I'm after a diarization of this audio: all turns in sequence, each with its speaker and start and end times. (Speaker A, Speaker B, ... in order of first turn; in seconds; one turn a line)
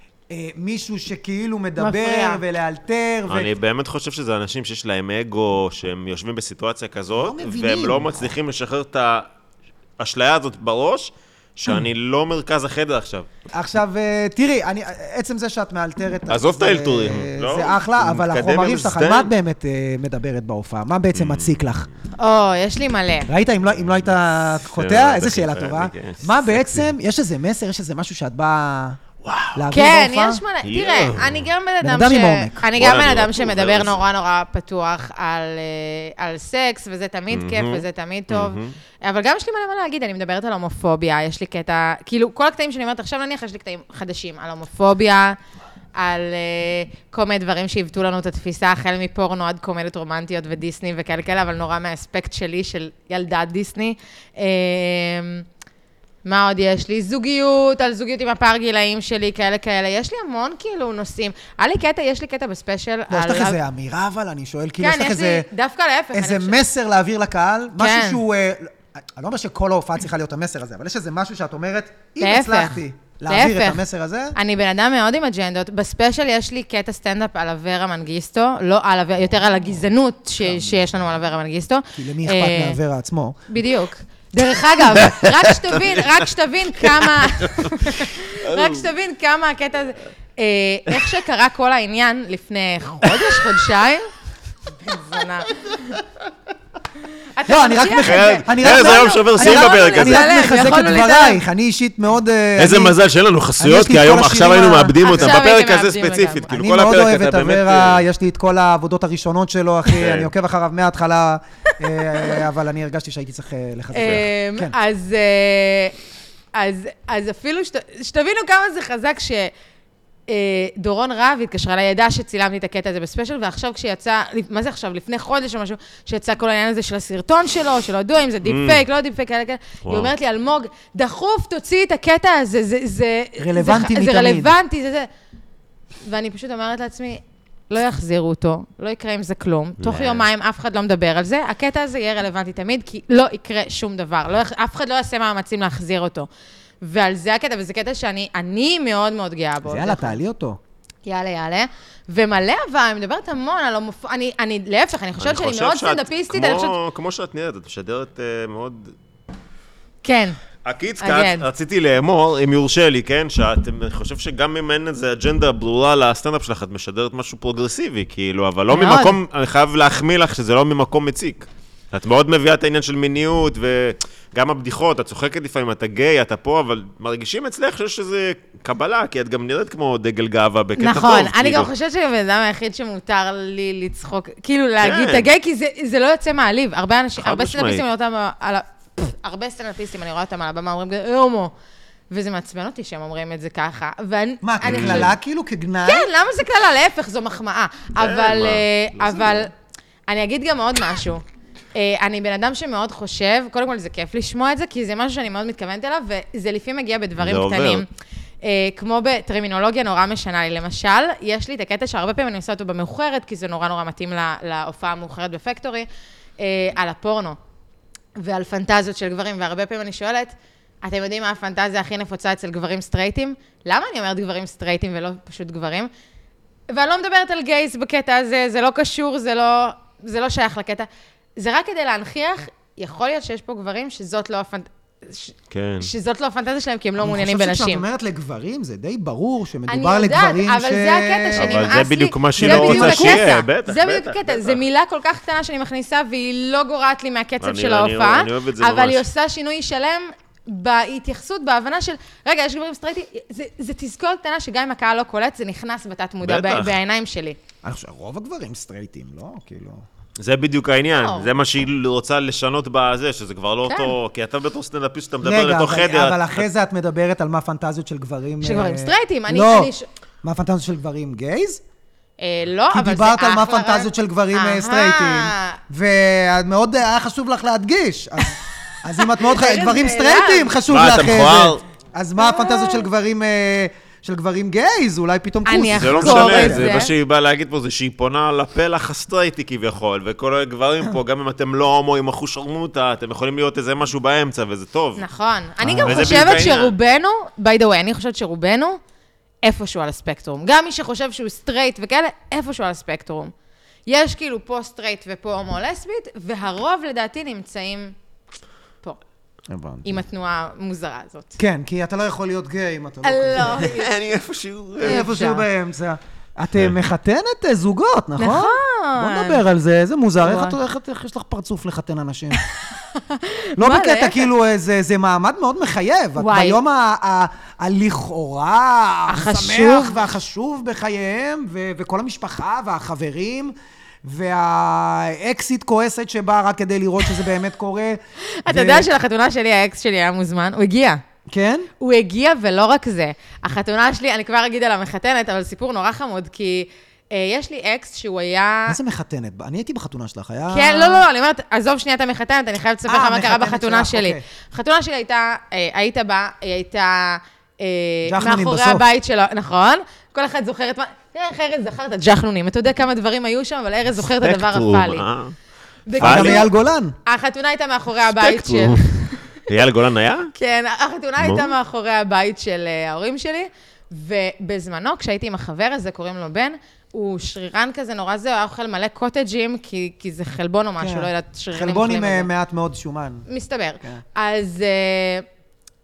Speaker A: 0.3-3.5
Speaker B: 1.8-2.4
Speaker C: 3.3-9.3
Speaker A: 7.2-8.3
Speaker C: 10.0-13.3
Speaker A: 13.5-21.9
Speaker C: 16.3-19.3
Speaker C: 21.1-21.6
Speaker B: 22.2-23.3
Speaker A: 23.3-29.0
Speaker C: 24.6-26.9
Speaker C: 29.2-29.6
Speaker A: 29.5-30.4
Speaker B: 29.7-45.4
Speaker C: 30.6-31.4
Speaker A: 31.8-32.6
Speaker C: 32.7-34.0
Speaker C: 37.3-38.8
Speaker B: 46.0-55.5
Speaker B: 56.2-63.6
Speaker A: 63.1-65.5
Speaker B: 64.8-66.6
Speaker A: 66.1-74.3
Speaker B: 67.8-68.2
Speaker B: 72.2-73.8
Speaker B: 74.3-82.8
Speaker A: 81.9-83.4
Speaker B: 83.5-94.1
Speaker C: 85.0-86.1
Speaker C: 86.8-88.9
Speaker B: 94.8-96.0
Speaker B: 97.3-101.4
Speaker A: 97.5-103.0
Speaker C: 98.0-100.3
Speaker C: 102.6-108.0
Speaker A: 103.6-105.4
Speaker B: 105.0-106.5
Speaker A: 106.5-114.8
Speaker C: 110.0-110.3
Speaker B: 112.0-112.4
Speaker B: 113.9-115.9
Speaker B: 116.5-119.5
Speaker B: 120.3-135.1
Speaker C: 128.4-128.8
Speaker C: 129.8-130.1
Speaker A: 133.4-134.5
Speaker B: 136.0-146.3
Speaker C: 139.8-140.2
Speaker B: 146.8-150.2
Speaker A: 149.6-150.6
Speaker B: 151.1-156.8
Speaker C: 155.2-158.9
Speaker B: 160.0-160.4
Speaker C: 160.6-181.7
Speaker B: 161.0-161.4
Speaker B: 168.7-169.2
Speaker B: 180.8-191.5
Speaker C: 184.8-185.3
Speaker C: 187.2-187.8
Speaker B: 192.1-195.1
Speaker A: 194.4-196.1
Speaker C: 194.6-195.1
Speaker B: 195.8-199.5
Speaker C: 198.0-199.4
Speaker B: 200.1-201.2
Speaker B: 201.7-207.9
Speaker C: 207.2-207.8
Speaker B: 208.4-215.9
Speaker B: 216.4-217.4
Speaker B: 218.2-225.9
Speaker B: 226.7-230.9
Speaker B: 231.4-237.8
Speaker C: 235.5-235.9
Speaker A: 237.0-241.8
Speaker B: 239.7-257.4
Speaker C: 241.4-244.6
Speaker A: 242.3-243.3
Speaker C: 247.4-249.0
Speaker C: 256.2-256.8
Speaker A: 257.6-259.8
Speaker C: 260.2-266.4
Speaker B: 261.0-261.3
Speaker B: 263.6-263.9
Speaker A: 265.2-269.7
Speaker B: 268.4-269.9
Speaker A: 270.2-271.6
Speaker B: 272.2-275.6
Speaker A: 272.7-286.8
Speaker B: 279.0-280.6
Speaker C: 280.7-281.6
Speaker B: 282.2-282.8
Speaker B: 285.4-286.9
Speaker C: 285.8-295.1
Speaker B: 295.0-298.8
Speaker A: 295.6-296.4
Speaker C: 295.8-296.7
Speaker B: 299.4-303.3
Speaker B: 303.9-307.9
Speaker A: 309.5-310.0
Speaker B: 309.8-311.4
Speaker A: 311.4-313.7
Speaker B: 313.0-313.9
Speaker C: 313.6-315.0
Speaker A: 314.8-322.4
Speaker B: 314.8-315.4
Speaker B: 318.2-319.4
Speaker B: 320.2-320.6
Speaker B: 322.4-324.3
Speaker A: 323.6-338.9
Speaker B: 326.2-326.6
Speaker B: 329.1-330.0
Speaker B: 338.3-341.0
Speaker A: 341.3-341.7
Speaker B: 341.8-348.8
Speaker A: 348.7-351.1
Speaker B: 350.5-365.0
Speaker A: 352.9-354.2
Speaker A: 358.1-358.9
Speaker C: 364.0-365.3
Speaker B: 365.9-366.5
Speaker C: 366.0-366.4
Speaker A: 366.0-366.9
Speaker B: 367.0-369.2
Speaker C: 368.1-370.3
Speaker B: 370.3-382.3
Speaker C: 371.2-371.5
Speaker A: 380.8-383.2
Speaker B: 383.3-385.2